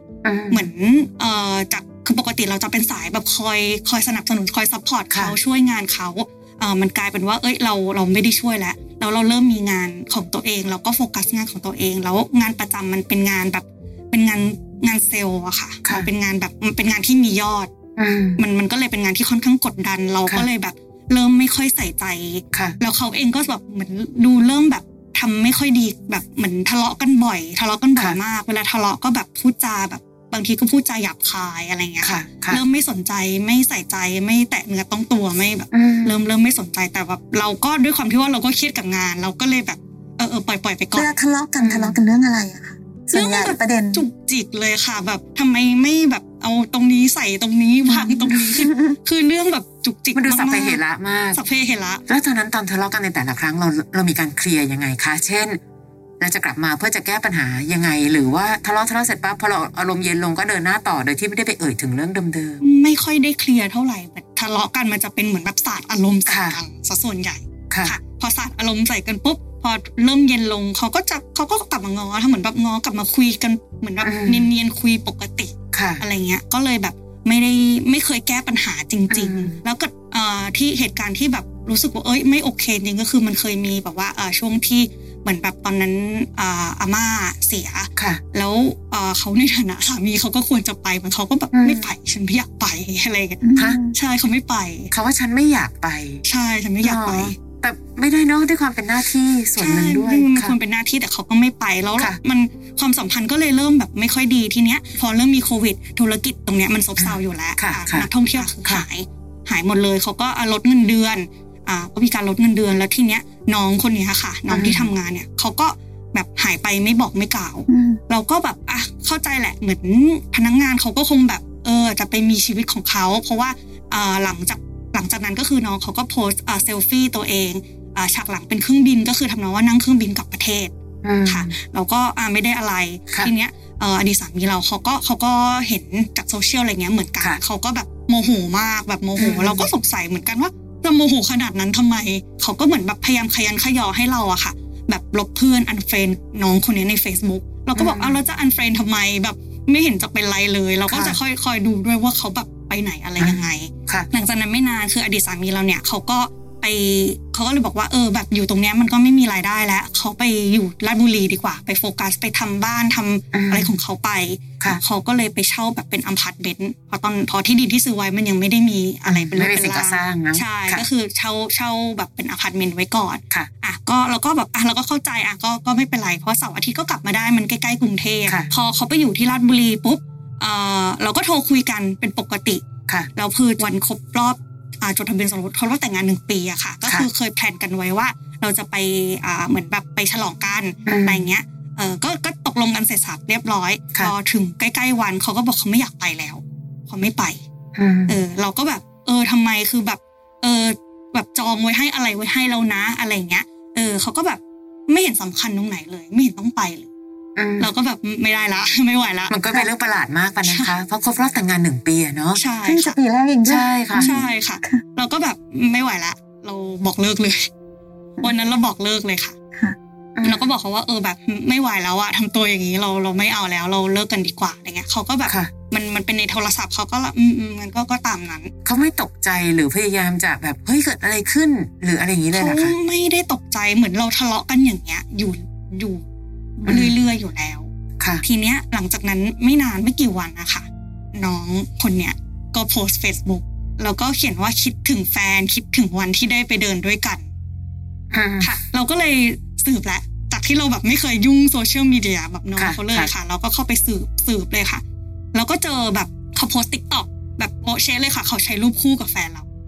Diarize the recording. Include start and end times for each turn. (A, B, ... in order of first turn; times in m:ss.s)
0:00.2-0:00.7 A
0:00.5-0:17.7 B
0:18.0-0:18.4 A
0:18.4-0:41.2 B
0:32.0-0:32.6 A
0:35.7-0:36.2 A
0:40.9-0:44.0 C
0:41.6-0:42.0 A
0:43.1-0:50.8 B
0:47.9-0:49.0 C
0:50.2-0:51.4 A
0:51.3-0:52.0 B
0:52.1-0:55.6 A
0:56.2-1:02.6 A
1:02.6-1:34.9 B
1:06.3-1:06.6 A
1:07.7-1:08.0 A
1:14.0-1:14.5 A
1:15.7-1:16.0 A
1:19.1-1:19.6 A
1:28.0-1:28.2 A
1:31.5-1:31.9 A
1:33.4-1:34.0 C
1:34.9-1:36.2 A
1:36.2-1:37.4 B
1:36.8-1:40.6 A
1:39.6-2:10.7 B
1:47.0-1:48.8 A
1:54.5-1:54.9 A
1:57.7-1:58.0 C
2:11.0-2:11.5 A
2:11.3-3:17.4 B
2:19.2-2:19.7 A
2:27.8-2:28.2 A
2:30.9-2:31.2 A
2:33.2-2:34.1 A
2:43.3-2:43.7 A
2:49.0-2:50.9 A
3:10.9-3:11.2 A
3:17.8-3:18.2 A
3:18.1-3:26.9 B
3:27.4-3:27.7 A
3:27.6-3:29.3 B
3:29.3-3:32.4 A
3:30.5-3:30.7 B
3:32.4-3:33.0 B
3:32.6-3:34.8 C
3:33.5-3:34.1 A
3:34.0-3:37.5 B
3:38.2-3:39.4 B
3:40.2-3:40.4 A
3:40.2-3:48.5 B
3:48.6-3:52.7 A
3:52.3-3:56.0 B
3:56.6-3:56.9 C
3:56.6-3:57.7 B
3:56.7-3:57.0 A
3:58.2-4:07.2 B
4:08.1-4:08.5 A
4:08.4-4:14.8 B
4:12.6-4:13.1 A
4:15.3-4:19.5 B